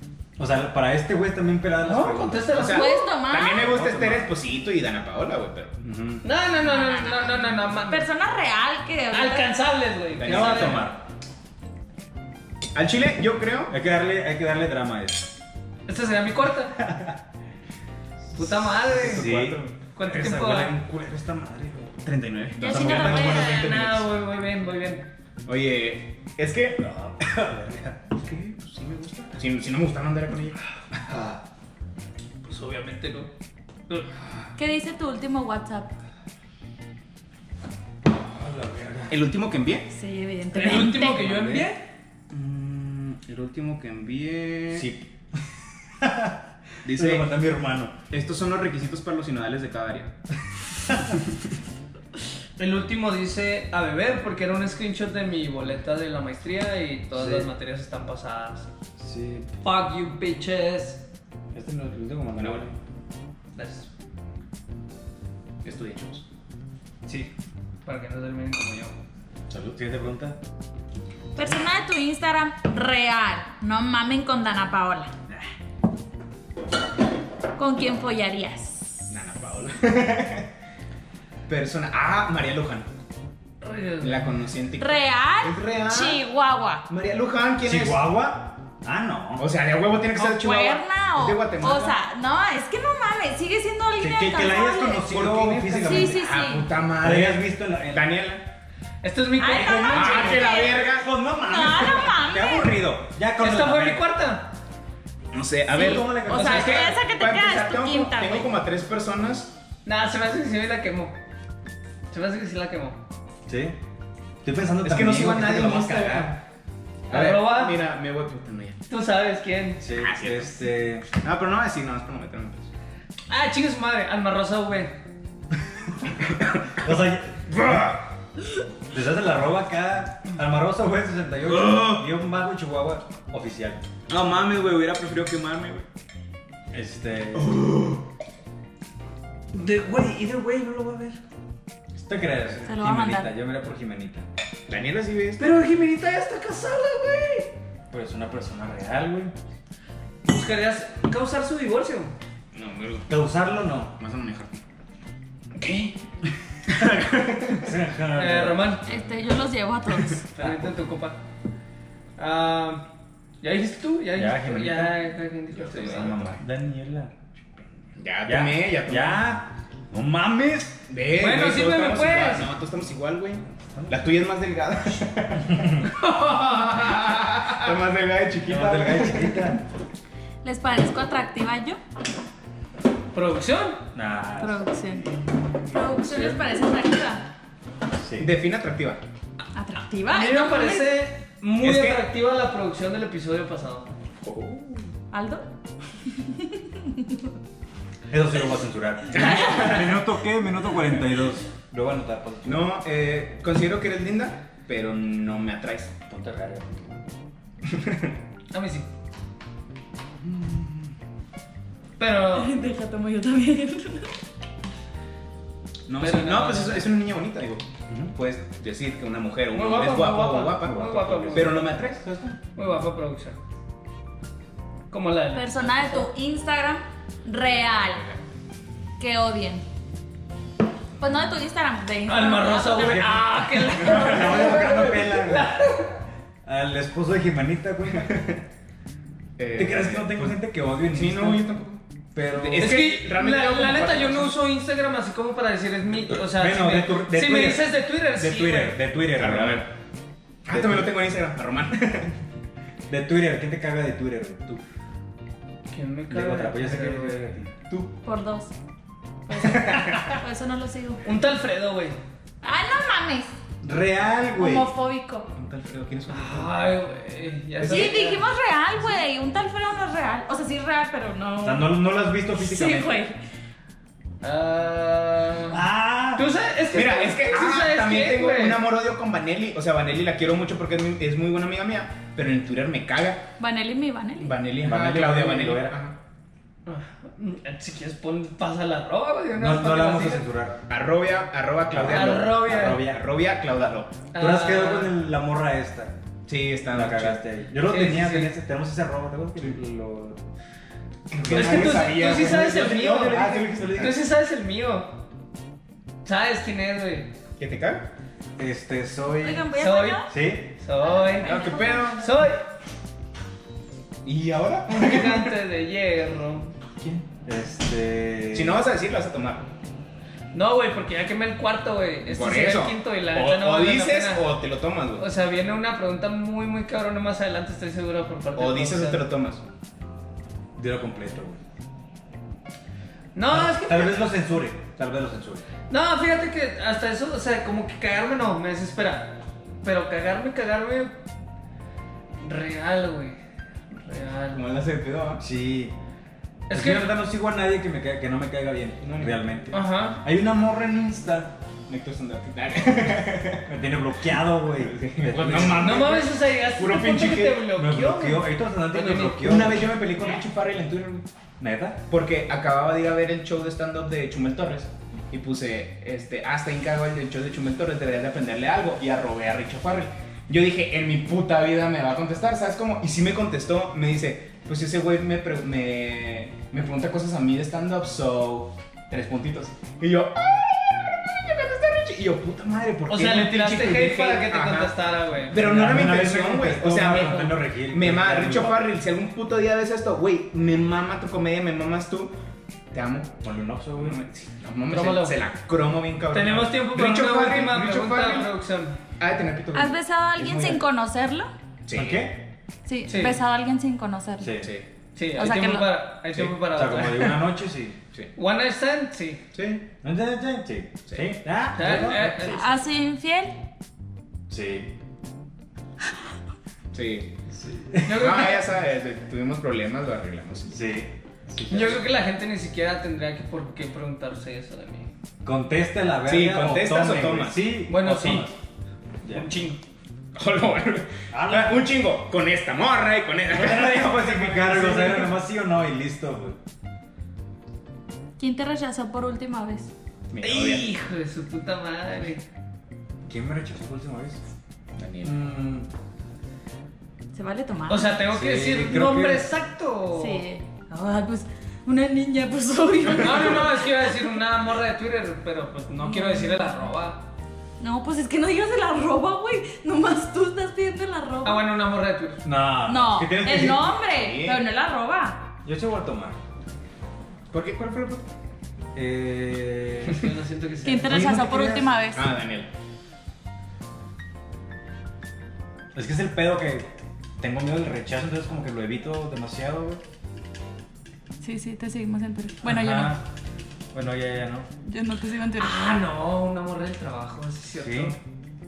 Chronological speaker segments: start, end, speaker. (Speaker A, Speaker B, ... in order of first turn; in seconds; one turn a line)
Speaker A: 0.4-2.6
Speaker B: 1.8-3.0
Speaker C: 2.5-5.8
Speaker D: 2.6-3.8
Speaker A: 3.7-4.3
Speaker A: 5.8-6.2
Speaker B: 6.2-8.1
Speaker D: 6.6-9.5
Speaker B: 9.1-10.9
Speaker C: 10.2-11.0
Speaker A: 10.2-11.0
Speaker C: 12.7-13.7
Speaker A: 13.7-15.3
Speaker B: 15.9-16.8
Speaker A: 16.8-17.2
Speaker B: 18.3-19.3
Speaker C: 18.9-19.7
Speaker A: 18.9-22.0
Speaker B: 19.9-20.8
Speaker C: 22.0-23.5
Speaker D: 22.6-23.8
Speaker A: 22.6-24.0
Speaker B: 22.9-25.1
Speaker C: 25.4-26.9
Speaker A: 26.8-28.0
Speaker C: 28.1-30.6
Speaker A: 31.1-31.4
Speaker B: 32.4-33.3
Speaker D: 34.5-35.9
Speaker A: 38.4-39.1
Speaker C: 39.1-39.9
Speaker D: 39.9-41.3
Speaker B: 40.5-41.8
Speaker A: 41.0-41.7
Speaker C: 42.3-44.9
Speaker A: 44.7-47.9
Speaker C: 46.8-47.3
Speaker C: 48.1-50.1
Speaker B: 52.6-58.7
Speaker A: 57.1-57.5
Speaker A: 59.0-59.5
Speaker B: 59.6-61.0
Speaker A: 61.5-62.8
Speaker C: 62.3-62.8
Speaker B: 63.5-63.9
Speaker C: 65.6-66.2
Speaker B: 67.0-67.3
Speaker B: 67.8-69.0
Speaker A: 69.5-70.4
Speaker D: 71.3-75.1
Speaker D: 77.6-79.1
Speaker C: 79.1-80.5
Speaker C: 81.5-82.9
Speaker B: 83.6-84.3
Speaker C: 84.0-86.2
Speaker D: 84.8-86.8
Speaker C: 86.9-88.0
Speaker A: 87.6-89.5
Speaker C: 89.4-92.0
Speaker D: 90.1-95.1
Speaker A: 94.0-96.2
Speaker C: 95.0-98.4
Speaker D: 95.8-96.7
Speaker A: 97.0-98.1
Speaker B: 99.0-100.1
Speaker D: 99.4-102.8
Speaker A: 99.5-104.0
Speaker C: 99.8-101.1
Speaker B: 103.4-104.5
Speaker C: 105.3-109.5
Speaker D: 105.7-108.5
Speaker A: 105.7-106.9
Speaker B: 109.8-111.2
Speaker B: 112.1-113.0
Speaker A: 113.5-113.8
Speaker A: 114.4-116.4
Speaker C: 114.8-116.4
Speaker B: 117.1-117.8
Speaker C: 117.1-118.8
Speaker B: 118.9-119.8
Speaker A: 119.8-121.1
Speaker C: 119.9-122.7
Speaker B: 123.3-125.0
Speaker C: 126.2-126.8
Speaker A: 126.7-128.0
Speaker C: 127.6-128.0
Speaker A: 128.9-133.8
Speaker C: 131.4-132.1
Speaker C: 134.1-135.8
Speaker A: 136.7-137.6
Speaker C: 137.3-138.0
Speaker B: 139.5-141.2
Speaker A: 141.9-144.2
Speaker D: 142.7-143.3
Speaker C: 144.7-145.5
Speaker B: 145.4-147.5
Speaker A: 147.9-149.3
Speaker B: 150.2-152.1
Speaker C: 152.5-153.1
Speaker A: 153.1-153.9
Speaker C: 154.0-154.6
Speaker C: 155.6-155.9
Speaker C: 156.7-157.7
Speaker A: 157.6-158.9
Speaker B: 158.1-158.8
Speaker D: 158.8-160.2
Speaker B: 160.3-161.2
Speaker A: 160.4-160.7
Speaker B: 162.2-162.8
Speaker B: 163.4-166.2
Speaker A: 164.1-165.0
Speaker C: 165.6-166.4
Speaker A: 165.8-167.1
Speaker C: 168.0-169.3
Speaker A: 168.2-170.8
Speaker C: 170.9-176.2
Speaker B: 171.2-172.5
Speaker A: 175.5-175.8
Speaker B: 176.0-177.4
Speaker C: 176.8-179.5
Speaker A: 178.4-179.6
Speaker D: 180.4-181.8
Speaker B: 183.1-183.8
Speaker A: 183.9-184.6
Speaker D: 184.4-185.0
Speaker D: 185.7-187.2
Speaker A: 186.1-186.4
Speaker A: 188.0-188.3
Speaker C: 188.2-189.0
Speaker D: 189.5-190.9
Speaker B: 190.1-193.9
Speaker C: 191.6-192.0
Speaker C: 194.2-194.9
Speaker D: 195.1-195.4
Speaker D: 196.2-197.2
Speaker A: 198.1-202.7
Speaker C: 199.1-199.9
Speaker C: 202.4-205.9
Speaker A: 206.1-207.0
Speaker C: 207.7-208.1
Speaker B: 208.5-208.9
Speaker B: 212.0-212.6
Speaker D: 212.3-214.1
Speaker C: 215.9-222.0
Speaker B: 216.0-216.9
Speaker A: 217.9-218.1
Speaker B: 219.5-221.6
Speaker A: 220.6-222.4
Speaker B: 222.5-223.4
Speaker B: 224.9-226.1
Speaker D: 225.3-228.1
Speaker D: 229.0-229.6
Speaker D: 231.0-233.1
Speaker B: 232.1-236.0
Speaker A: 232.7-235.6
Speaker A: 236.4-238.2
Speaker C: 238.0-238.4
Speaker C: 239.4-244.4
Speaker A: 239.6-241.5
Speaker A: 242.1-242.9
Speaker B: 242.6-248.8
Speaker A: 246.1-249.7
Speaker C: 249.2-249.7
Speaker C: 250.4-252.2
Speaker A: 250.5-250.9
Speaker A: 252.9-254.6
Speaker B: 255.7-257.4
Speaker A: 256.1-257.5
Speaker C: 257.7-257.9
Speaker D: 258.0-258.5
Speaker D: 259.3-261.0
Speaker C: 259.4-260.2
Speaker B: 261.0-262.0
Speaker D: 262.4-263.3
Speaker A: 263.6-264.7
Speaker D: 264.4-265.3
Speaker C: 265.3-266.6
Speaker B: 266.1-268.2
Speaker C: 267.6-268.0
Speaker D: 267.7-273.2
Speaker A: 271.4-273.0
Speaker B: 274.2-275.6
Speaker A: 275.5-276.3
Speaker B: 276.1-278.6
Speaker C: 276.7-283.2
Speaker D: 283.4-284.3
Speaker C: 284.2-286.0
Speaker A: 284.6-285.8
Speaker B: 286.6-290.2
Speaker A: 289.4-290.6
Speaker C: 290.7-293.9
Speaker A: 291.7-293.1
Speaker B: 291.9-292.8
Speaker B: 294.1-295.0
Speaker A: 294.1-295.9
Speaker C: 296.2-297.2
Speaker A: 296.7-300.2
Speaker B: 297.7-298.3
Speaker A: 301.1-304.0
Speaker C: 301.1-303.9
Speaker B: 301.3-304.9
Speaker B: 306.0-307.1
Speaker C: 307.4-307.9
Speaker A: 308.4-309.5
Speaker D: 309.2-310.1
Speaker B: 309.5-312.4
Speaker A: 310.1-310.5
Speaker D: 310.8-312.0
Speaker C: 311.2-312.2
Speaker C: 314.0-315.3
Speaker B: 314.7-316.5
Speaker A: 316.8-318.6
Speaker C: 318.3-319.4
Speaker B: 320.3-324.3
Speaker C: 322.1-325.1
Speaker B: 325.0-329.1
Speaker C: 328.4-329.4
Speaker A: 330.6-331.4
Speaker B: 333.1-334.1
Speaker A: 333.3-335.4
Speaker B: 335.7-341.0
Speaker B: 342.2-343.2
Speaker B: 343.7-344.4
Speaker C: 344.3-345.2
Speaker A: 345.2-345.8
Speaker B: 346.5-347.0
Speaker A: 346.5-351.3
Speaker C: 348.8-349.2
Speaker B: 349.5-350.0
Speaker C: 351.7-353.5
Speaker A: 353.5-356.0
Speaker C: 354.6-357.5
Speaker B: 355.4-359.3
Speaker A: 357.5-359.8
Speaker C: 359.2-361.1
Speaker A: 361.4-361.8
Speaker C: 361.9-384.7
Speaker B: 382.9-385.4
Speaker C: 385.3-392.1
Speaker A: 385.3-388.7
Speaker B: 386.9-387.3
Speaker C: 392.7-393.1
Speaker A: 393.2-394.0
Speaker C: 393.8-398.3
Speaker B: 394.7-395.2
Speaker B: 396.1-398.8
Speaker C: 399.0-400.6
Speaker D: 399.5-401.3
Speaker C: 401.6-402.1
Speaker A: 401.7-402.2
Speaker D: 402.6-404.4
Speaker B: 402.9-403.2
Speaker A: 404.2-404.5
Speaker C: 404.4-404.6
Speaker B: 404.9-407.2
Speaker D: 405.2-405.7
Speaker A: 406.2-407.8
Speaker B: 408.1-409.2
Speaker C: 409.3-409.7
Speaker A: 409.8-412.5
Speaker C: 410.9-411.1
Speaker B: 411.5-412.4
Speaker D: 412.2-413.4
Speaker A: 414.3-414.7
Speaker C: 416.7-417.1
Speaker A: 417.4-418.1
Speaker B: 417.8-418.4
Speaker C: 417.9-420.6
Speaker A: 420.5-421.8
Speaker B: 421.5-424.9
Speaker A: 425.2-428.3
Speaker C: 426.0-427.6
Speaker B: 427.7-428.3
Speaker B: 429.1-429.6
Speaker C: 430.1-435.1
Speaker A: 431.1-431.7
Speaker A: 433.3-436.4
Speaker D: 438.2-439.7
Speaker C: 440.1-440.7
Speaker B: 440.2-442.2
Speaker A: 443.1-444.2
Speaker C: 444.8-445.2
Speaker A: 445.0-445.7
Speaker D: 447.1-448.0
Speaker B: 447.7-450.2
Speaker A: 448.1-449.3
Speaker D: 449.9-453.7
Speaker B: 453.0-457.0
Speaker D: 455.8-456.7
Speaker D: 457.6-461.4
Speaker B: 461.2-462.2
Speaker A: 462.2-463.7
Speaker D: 462.6-465.3
Speaker C: 463.9-464.4
Speaker A: 465.4-466.2
Speaker C: 467.3-468.1
Speaker A: 468.7-470.1
Speaker B: 469.9-471.1
Speaker D: 470.6-472.1
Speaker A: 470.8-471.7
Speaker C: 471.9-472.5
Speaker A: 475.7-479.8
Speaker D: 481.2-483.0
Speaker A: 482.4-483.0
Speaker A: 483.7-484.5
Speaker D: 484.6-485.7
Speaker B: 485.4-488.0
Speaker A: 487.6-487.9